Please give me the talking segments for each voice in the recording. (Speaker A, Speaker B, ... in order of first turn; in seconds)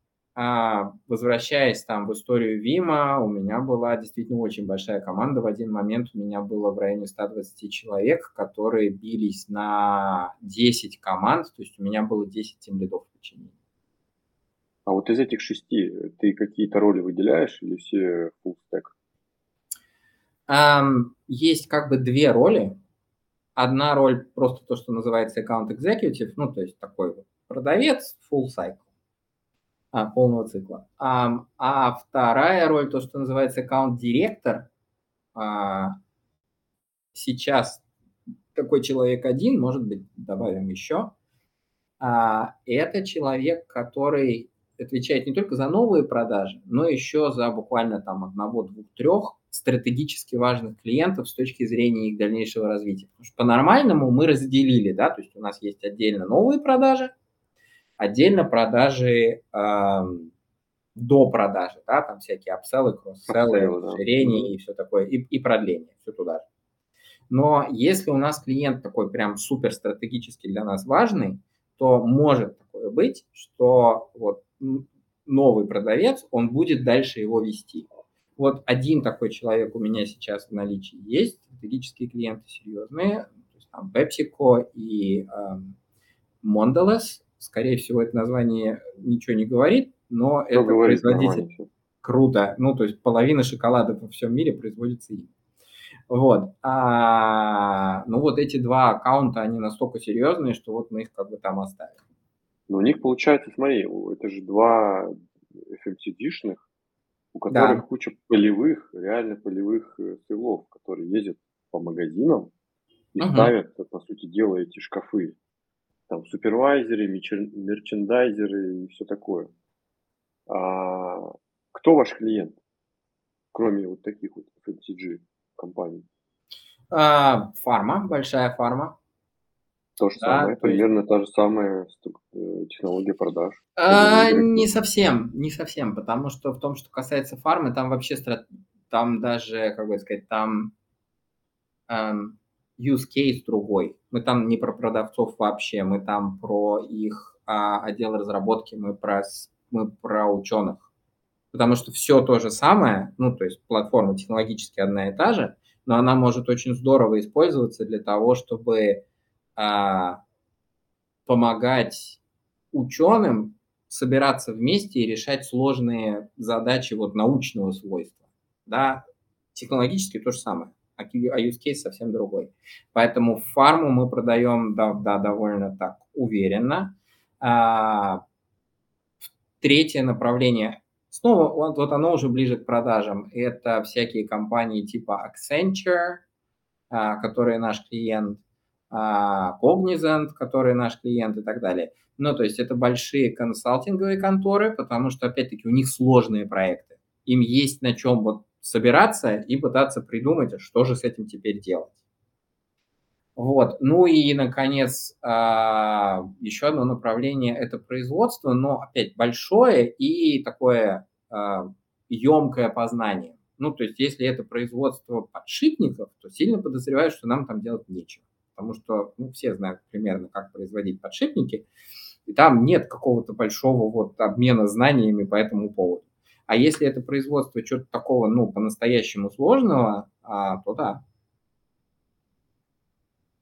Speaker A: 0.4-13.5, 20.5-22.8, 23.6-28.8, 29.9-34.7, 35.4-36.0, 37.1-37.8, 38.5-41.1, 42.0-57.1, 58.0-60.3, 61.0-66.4, 67.3-85.8, 86.4-91.4, 92.0-95.3, 96.1-102.0, 107.5-107.8, 113.2-113.5, 126.9-129.0, 130.2-130.8, 133.8-140.7, 141.9-150.9, 151.5-159.0, 159.6-160.2, 161.3-162.2, 162.7-169.0, 169.6-178.2, 179.6-186.2, 186.9-201.9, 203.4-221.7, 222.3-231.0
Speaker B: 14.9-18.9, 63.3-64.5, 90.5-91.7, 102.7-106.6, 107.3-112.5, 113.2-115.3, 116.1-119.5, 120.5-122.6, 123.5-126.1, 130.0-134.7